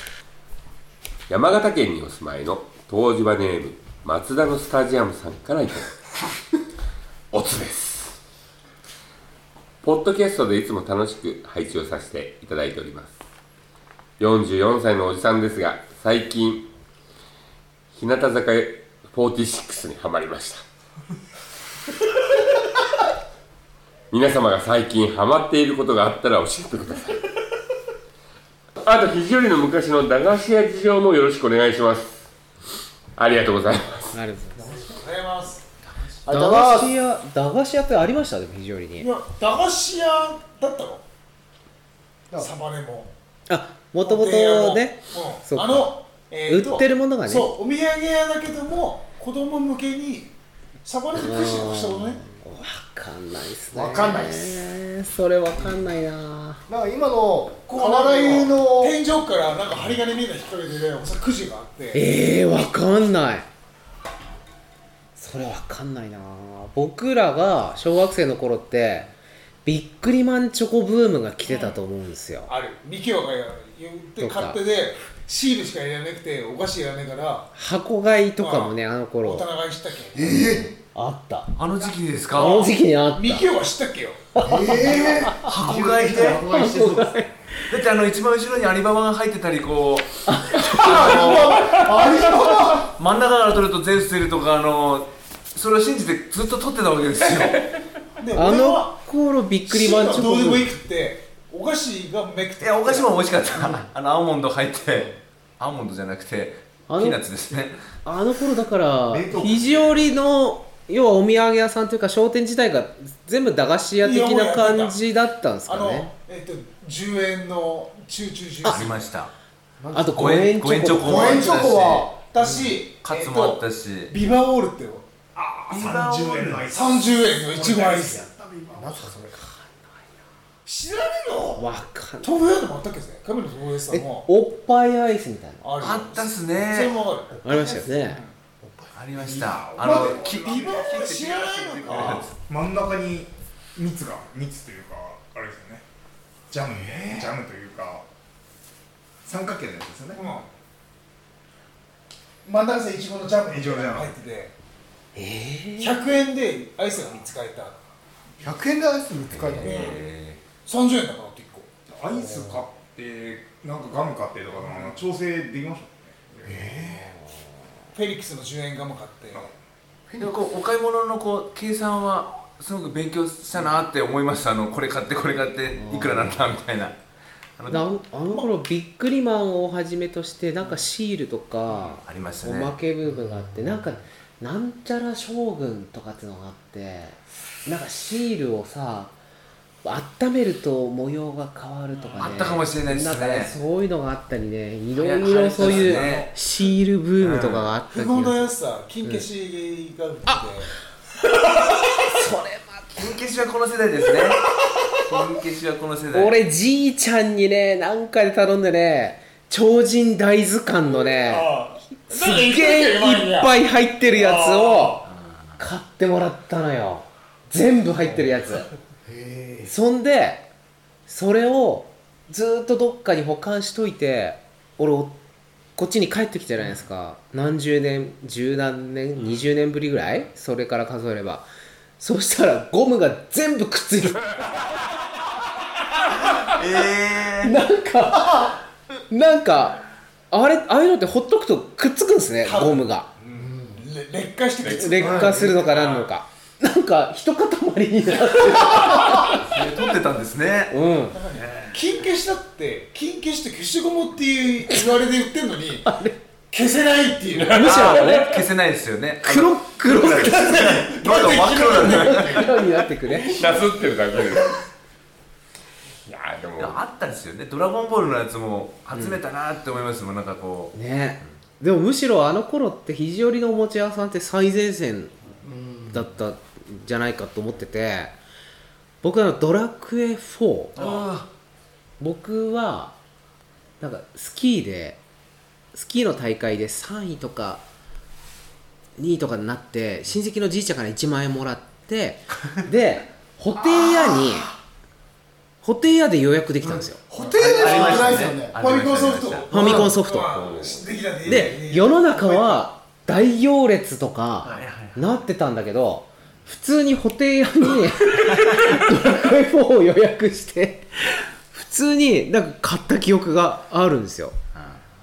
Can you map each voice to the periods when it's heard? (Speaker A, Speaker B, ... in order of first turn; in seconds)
Speaker A: 1.3-6.0, 7.3-8.1, 9.8-13.1, 14.2-16.7, 17.9-20.6, 24.1-27.3, 28.8-32.2, 33.2-34.1, 244.6-245.0, 257.3-258.4, 263.1-264.6, 266.0-266.8, 300.2-300.9
Speaker B: 34.1-34.8, 36.3-39.1, 43.5-45.9, 46.5-47.5, 51.1-56.6, 61.9-63.5, 65.2-69.1, 69.6-72.5, 74.2-74.6, 77.5-79.5, 80.3-81.5, 82.3-83.5, 84.4-85.5, 86.2-87.7, 90.2-92.1, 98.3-100.7, 106.9-107.2, 108.0-116.1, 118.6-118.9, 119.9-121.7, 122.4-122.7, 128.9-130.1, 131.6-132.3, 133.9-135.7, 137.4-138.2, 155.1-156.0, 175.8-176.4, 177.7-189.1, 189.8-198.5, 202.1-203.2, 206.1-215.1, 215.6-218.7, 219.7-220.5, 221.1-225.2, 225.8-231.5, 232.0-234.5, 237.4-238.6, 239.1-243.1, 244.6-249.4, 250.7-251.2, 255.8-256.2, 257.5-258.4, 259.2-260.7, 261.8-263.5, 268.9-269.2, 270.7-275.1, 275.9-278.1, 279.0-281.1, 282.0-282.9, 283.8-285.0, 285.7-287.6, 289.0-294.5, 295.6-297.0, 299.5-300.3, 301.2-314.4
Speaker C: 34.5-36.1, 39.0-41.0, 42.4-43.1, 44.0-52.2, 57.7-62.1, 71.5-71.8, 72.5-77.5, 78.4-80.2, 83.1-85.1, 98.2-99.0, 99.6-103.3, 114.0-115.0, 115.7-119.2, 121.1-125.1, 126.7-128.2, 130.6-131.7, 132.2-134.3, 135.6-137.4, 139.8-142.4, 150.1-150.5, 152.4-154.5, 155.8-157.8, 159.6-159.9, 160.6-161.7, 167.9-169.5, 191.9-192.3, 195.6-196.3, 197.9-200.7, 204.6-204.9, 210.8-213.5, 214.0-215.0, 218.1-218.4, 242.4-245.7, 251.1-255.8, 256.5-257.6, 260.3-262.9, 293.6-294.5, 297.5-302.6
Speaker D: 36.2-36.9, 53.7-54.6, 56.7-59.0, 80.1-80.8, 84.3-86.5, 90.8-92.9, 119.8-120.3, 121.0-122.1, 128.7-129.4, 137.4-138.1, 138.6-139.3, 158.4-159.9, 162.1-162.7, 164.6-164.9, 166.4-167.1, 170.1-170.3, 219.1-219.7, 243.3-243.8, 245.0-245.4, 275.4-276.1, 296.6-298.6, 299.6-300.0
Speaker E: 81.5-82.7, 85.3-86.5, 87.7-91.8, 92.9-97.7, 102.6-107.8, 118.6-119.3, 120.1-122.0, 123.0-124.1, 125.7-126.6, 135.8-137.0, 138.9-142.3, 146.8-147.3, 159.3-160.4, 170.2-177.0, 177.6-177.9, 181.7-182.8, 192.2-193.5, 194.9-196.3, 197.2-197.7, 202.9-204.4, 205.0-206.4, 215.1-215.6, 236.3-237.5, 249.4-250.7, 251.3-252.1, 257.6-262.5, 266.6-270.7, 280.8-281.3, 297.1-299.7, 304.4-305.1, 314.5-314.8
Speaker F: 86.0-87.3, 109.1-110.2, 125.3-128.9, 139.1-140.9, 141.9-145.8, 146.5-148.0, 149.2-150.2, 153.5-154.1, 161.9-166.8